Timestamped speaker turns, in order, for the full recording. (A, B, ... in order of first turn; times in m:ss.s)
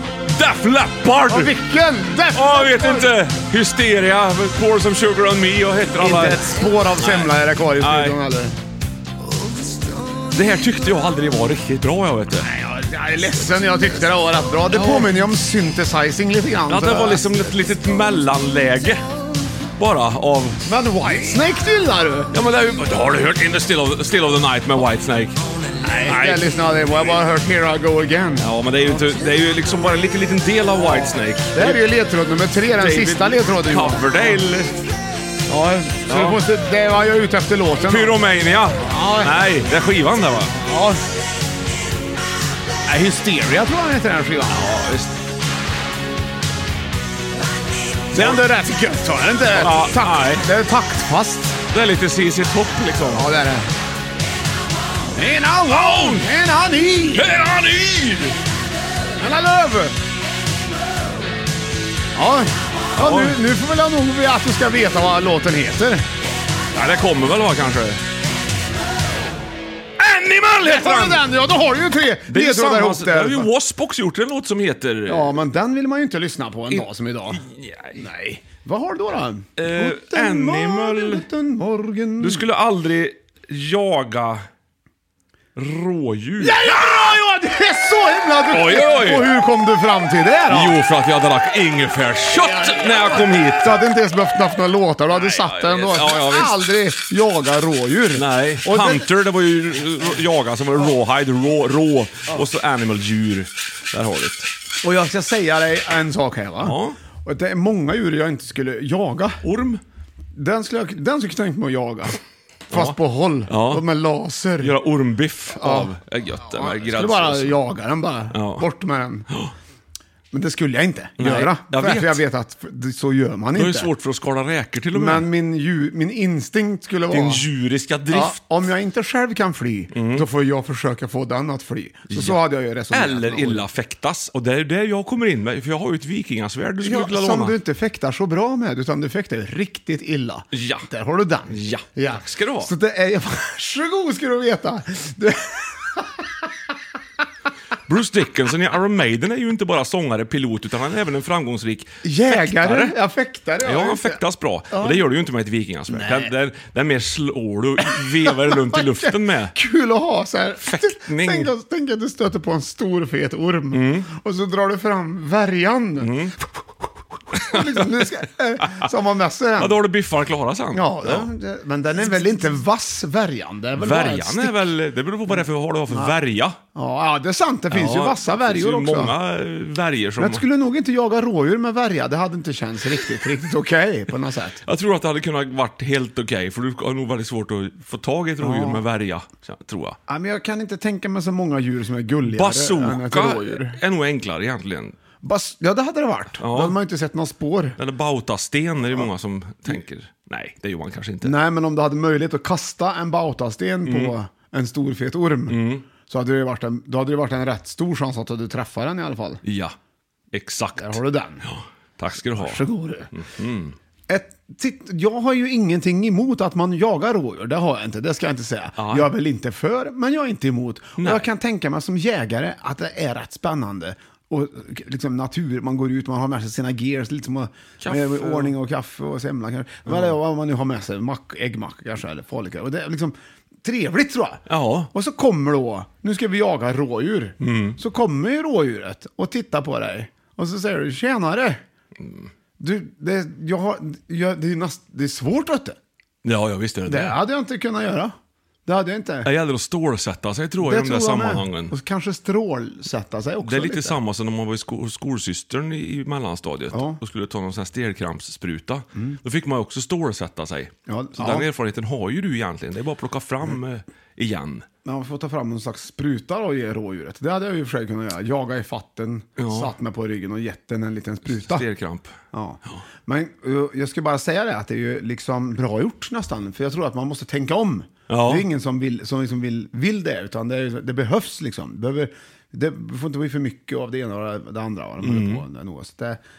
0:00.3-0:01.6 A
0:01.3-0:03.1 B
0:02.3-0:08.2 A
0:06.0-0:08.6 B
0:10.3-0:12.5 A
0:12.4-0:17.2 B
0:14.7-0:15.1 A
0:16.7-0:19.0 A
0:19.8-0:20.6 A
0:20.6-0:22.3 B
0:22.3-0:25.4 A
0:25.8-0:29.0 B
0:26.0-0:26.4 A
0:28.4-0:31.8 A
0:31.5-0:34.2 B
0:32.8-0:34.7 A
0:35.5-0:38.2 B
0:36.1-0:36.4 A
0:37.8-0:40.5 A
0:38.8-0:39.4 B
0:40.4-0:41.0 B
0:42.8-0:44.7 B
0:44.5-0:45.1 A
0:48.1-0:48.4 A
0:48.1-0:51.6 B
0:49.5-0:50.4 A
0:51.7-0:53.3 A
0:53.1-0:53.7 B
0:55.1-0:57.3 B
0:55.6-0:56.3 A
0:57.1-0:58.4 A
0:59.2-1:00.0 B
1:02.1-1:06.0 B
1:03.0-1:03.4 A
1:06.7-1:08.0 A
1:10.0-1:11.2 A
1:10.6-1:13.5 B
1:12.3-1:15.3 A
1:15.1-1:17.4 B
1:16.7-1:18.0 A
1:18.0-1:22.4 B
1:19.6-1:21.2 A
1:22.2-1:24.4 A
1:25.6-1:26.7 A
1:26.4-1:30.8 B
1:28.5-1:29.3 A
1:30.5-1:33.8 A
1:32.4-1:39.1 B
1:35.1-1:36.6 A
1:38.1-1:44.5 A
1:44.8-1:49.4 B
1:46.6-1:47.0 A
1:49.4-1:49.8 A
1:50.3-1:52.2 B
1:52.7-1:53.0 A
1:52.7-1:54.8 B
1:53.5-1:53.8 A
1:54.6-1:57.6 A
1:55.5-1:55.9 B
1:56.5-1:59.3 B
1:58.3-1:58.7 A
2:00.3-2:03.9 B
2:01.2-2:02.2 A
2:03.6-2:05.3 A
2:04.9-2:07.4 B
2:07.1-2:08.5 A
2:08.1-2:13.7 B
2:09.9-2:10.3 A
2:12.1-2:17.6 A
2:16.8-2:26.5 B
2:20.5-2:20.9 A
2:21.5-2:22.7 A
2:27.9-2:33.0 A
2:32.0-2:34.2 B
2:33.6-2:39.6 A
2:34.7-2:35.1 B
2:35.9-2:36.3 B
2:37.8-2:46.2 B
2:40.6-2:41.5 A
2:43.7-2:44.1 A
2:46.0-2:46.4 A
2:47.3-2:48.8 A
2:47.3-2:49.8 B
2:49.6-2:51.3 A
2:50.7-2:54.6 B
2:53.8-2:56.6 A
2:56.7-2:59.1 B
2:57.7-3:00.4 A
3:00.2-3:04.6 B
3:04.6-3:10.0 A
3:08.4-3:08.8 B
3:10.1-3:13.8 B
3:12.2-3:15.0 A
3:15.2-3:17.8 B
3:16.4-3:16.8 A
3:17.8-3:21.3 A
3:21.2-3:29.4 B
3:23.9-3:24.1 A
3:25.5-3:25.8 A
3:29.4-3:29.7 A
3:30.3-3:33.7 A
3:30.8-3:31.4 B
3:32.3-3:33.1 B
3:34.1-4:01.6 B
3:38.8-3:39.1 A
3:41.0-3:41.3 A
3:47.8-3:48.5 A
3:49.9-3:50.1 A
3:54.5-3:54.9 A
3:57.4-3:57.8 A
4:02.6-4:05.8 B
4:06.2-4:07.2 A
4:06.8-4:08.1 B
4:08.6-4:09.3 B
4:09.2-4:11.7 A
4:10.6-4:14.0 B
4:13.4-4:24.6 A
4:16.7-4:17.0 B
4:20.9-4:21.5 B
4:24.8-4:31.6 B
4:29.4-4:29.7 A
4:31.3-4:32.2 A
4:32.3-4:46.2 B
4:38.1-4:38.4 A
4:45.0-4:45.4 A